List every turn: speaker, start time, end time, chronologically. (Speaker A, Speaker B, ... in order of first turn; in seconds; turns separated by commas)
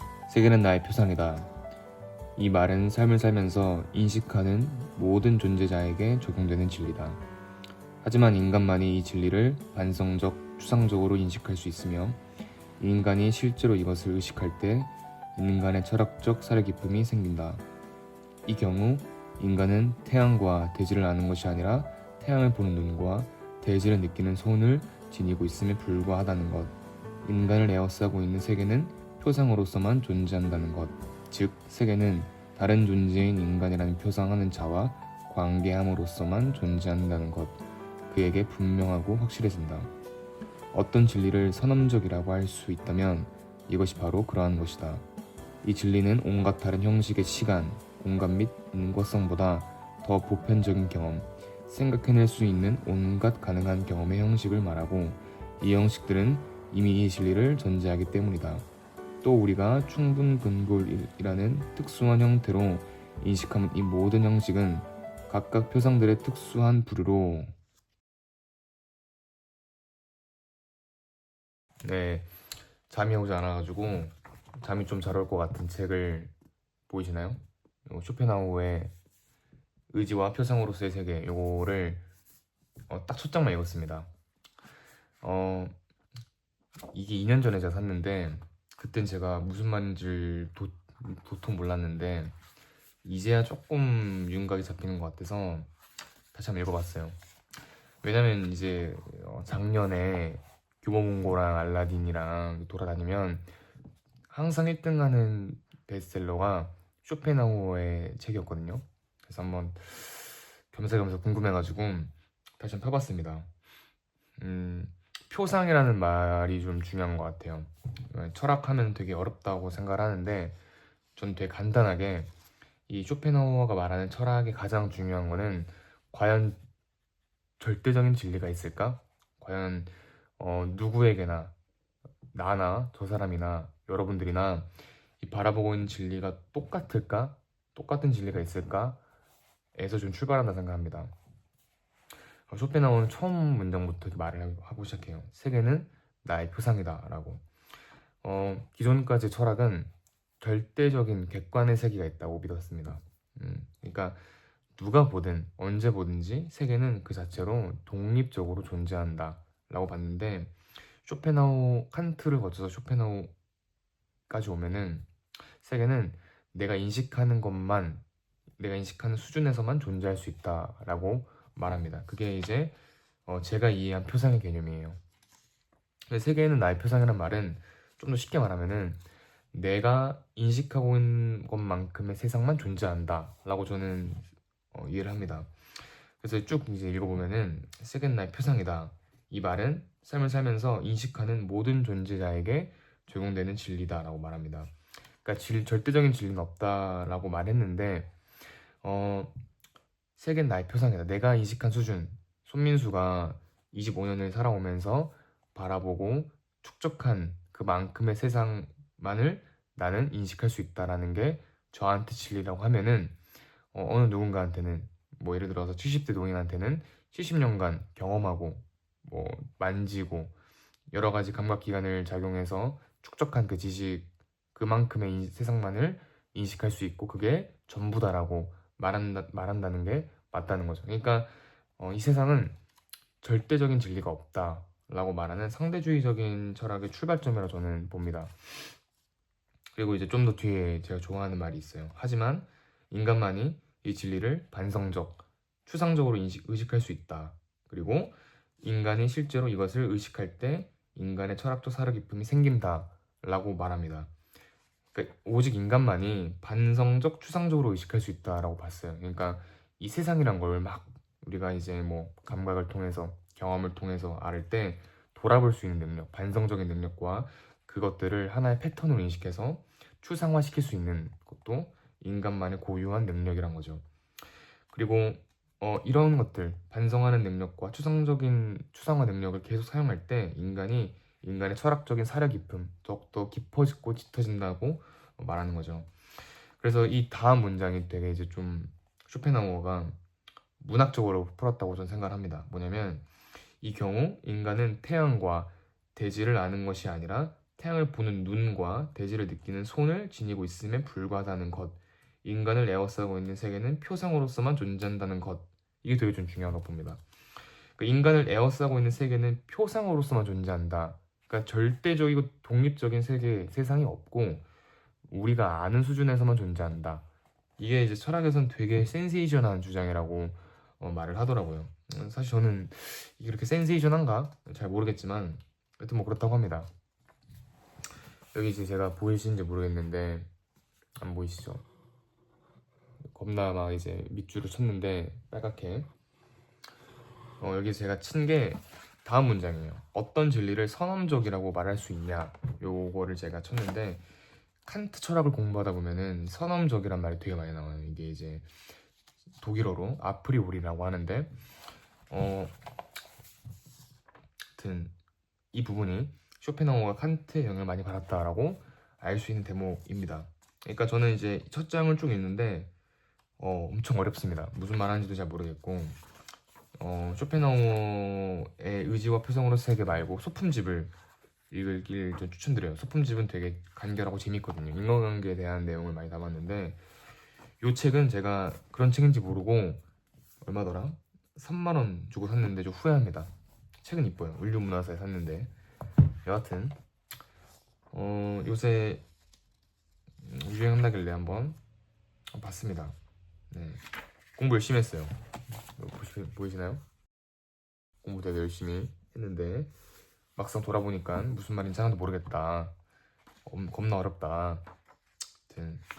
Speaker A: 0.3-1.5, Speaker A: 2.4-7.2, Speaker A: 8.0-12.2, Speaker A: 12.8-17.6, Speaker A: 18.5-39.9, Speaker A: 40.7-45.0, Speaker A: 45.6-58.7, Speaker A: 59.2-67.5, Speaker A: 71.8-72.3, Speaker A: 72.9-76.3, Speaker A: 76.9-78.9, Speaker A: 79.9-82.0, Speaker A: 82.9-84.1, Speaker A: 85.2-85.7, Speaker A: 86.9-92.3, Speaker A: 93.0-95.7, Speaker A: 96.3-97.2, Speaker A: 98.0-103.5, Speaker A: 104.3-113.5, Speaker A: 114.4-120.6, Speaker A: 121.2-122.3, Speaker A: 122.9-126.6, Speaker A: 127.6-131.5, Speaker A: 132.3-134.7, Speaker A: 135.2-139.0, Speaker A: 139.8-141.1, Speaker A: 142.5-147.4, Speaker A: 148.2-154.2, Speaker A: 154.8-163.3, Speaker A: 164.3-165.1, Speaker A: 165.6-168.0, Speaker A: 168.6-175.0, Speaker A: 176.1-179.0, Speaker A: 179.5-185.5, Speaker A: 186.2-198.1, Speaker A: 198.8-199.3, Speaker A: 200.2-213.2, Speaker A: 213.7-220.3, Speaker A: 220.9-232.6, Speaker A: 233.2-238.8, Speaker A: 239.7-254.1, Speaker A: 254.9-273.8, Speaker A: 274.7-285.9, Speaker A: 286.6-289.9, Speaker A: 290.6-293.1, Speaker A: 293.6-307.0, Speaker A: 307.8-314.4, Speaker A: 315.1-317.1, Speaker A: 317.6-326.7, Speaker A: 328.3-330.3, Speaker A: 331.0-331.6, Speaker A: 333.1-335.9, Speaker A: 337.4-344.1, Speaker A: 344.6-348.5, Speaker A: 349.4-351.3, Speaker A: 352.1-352.6, Speaker A: 354.6-354.9, Speaker A: 355.5-362.7, Speaker A: 363.4-366.0, Speaker A: 366.8-370.9, Speaker A: 371.5-376.8, Speaker A: 377.6-379.8, Speaker A: 380.4-385.5, Speaker A: 386.2-386.8, Speaker A: 387.9-389.1, Speaker A: 390.2-391.6, Speaker A: 392.3-392.9, Speaker A: 393.5-393.8, Speaker A: 394.3-395.1, Speaker A: 395.8-396.8, Speaker A: 398.0-399.7, Speaker A: 400.4-402.8, Speaker A: 403.4-404.6, Speaker A: 405.5-405.8